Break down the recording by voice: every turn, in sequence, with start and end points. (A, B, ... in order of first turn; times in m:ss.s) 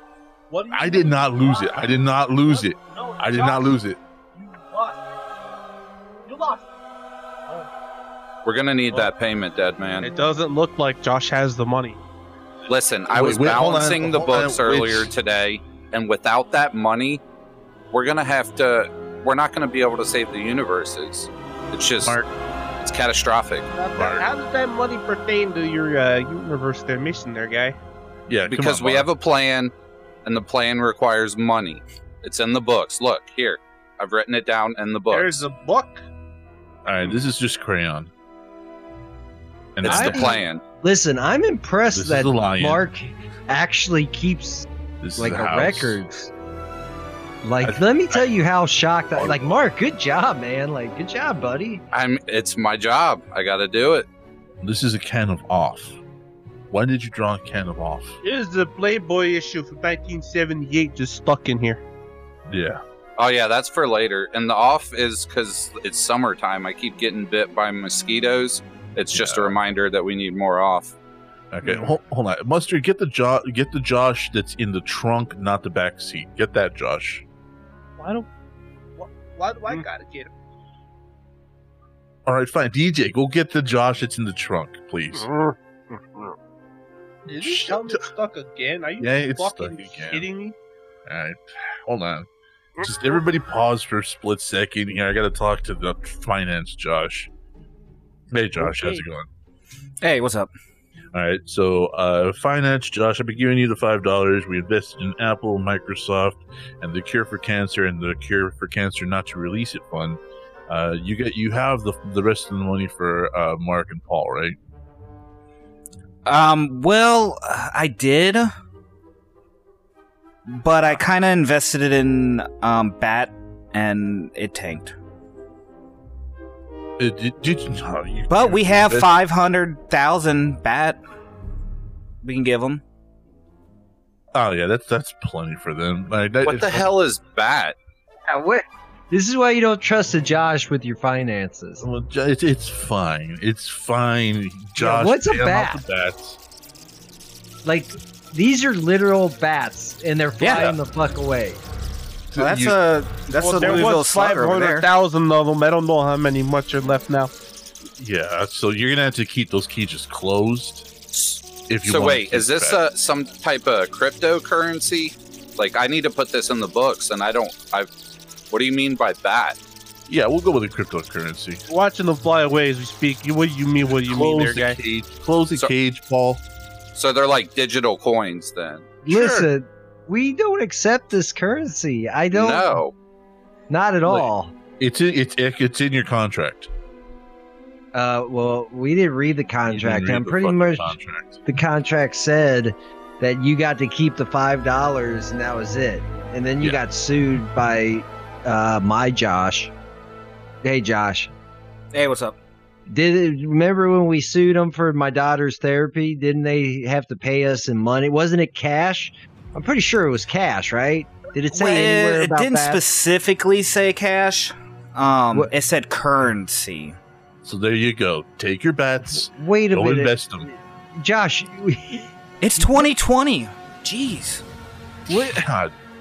0:00.5-0:03.7 A
0:00.7-0:04.0 B
0:04.4-0:05.0 A
0:06.3-0:06.7 A
0:08.4-0:10.1 C
0:10.0-0:12.0 A
0:12.7-0:17.2 C
0:13.1-0:15.1 B
0:17.9-0:22.2 C
0:22.0-0:22.3 B
0:22.8-0:23.7 C
0:23.8-0:27.8 A
0:24.0-0:24.3 B
0:28.3-0:29.1 B
0:28.5-0:29.7 C
0:30.2-0:35.4 C
0:35.1-0:36.0 A
0:36.8-0:38.1 B
0:39.8-0:40.4 B
0:39.8-0:40.6 C
0:39.8-0:46.3 D
0:41.9-0:42.9 B
0:45.0-0:46.0 B
0:47.4-0:51.8 D
0:47.6-0:48.2 B
0:51.9-0:54.1 C
0:54.6-0:56.0 B
0:56.7-0:58.2 B
0:58.2-1:01.8 A
1:02.5-1:02.8 B
1:03.2-1:11.0 C
1:09.1-1:09.6 B
1:11.5-1:17.2 B
1:11.6-1:11.9 A
1:18.0-1:18.3 A
1:19.0-1:20.3 A
1:22.3-1:25.3 B
1:27.3-1:30.6 A
1:27.3-1:28.1 B
1:29.0-1:30.3 B
1:31.1-1:32.3 B
1:32.8-1:37.3 B
1:38.3-1:39.3 B
1:38.6-1:39.0 A
1:40.0-1:40.5 E
1:41.1-1:54.6 B
1:56.3-1:58.5 E
2:00.5-2:04.9 E
2:07.0-2:09.2 B
2:08.3-2:11.0 E
2:12.2-2:12.8 E
2:14.3-2:16.9 B
2:16.4-2:17.8 C
2:18.3-2:21.9 D
2:21.8-2:26.4 B
2:24.8-2:25.8 D
2:27.6-2:31.6 D
2:30.4-2:30.7 E
2:30.4-2:30.8 B
2:32.3-2:32.8 B
2:32.4-2:34.9 E
2:33.4-2:37.3 A
2:33.6-2:33.9 B
2:38.0-2:40.9 B
2:41.1-2:47.9 C
2:41.7-2:42.8 B
2:48.5-2:49.6 C
2:50.1-2:51.6 B
2:51.7-2:54.8 A
2:54.1-2:56.4 B
2:57.0-2:58.9 C
2:59.1-3:02.8 D
2:59.1-2:59.5 A
3:02.3-3:02.9 C
3:03.7-3:04.5 D
3:04.8-3:06.7 B
3:07.9-3:19.7 D
3:09.7-3:11.4 B
3:20.6-3:21.3 D
3:21.9-3:22.4 E
3:22.9-3:32.8 D
3:31.5-3:37.0 E
3:37.4-3:40.5 B
3:39.1-3:42.9 D
3:42.4-3:44.4 E
3:45.1-3:45.7 B
3:45.1-3:45.4 D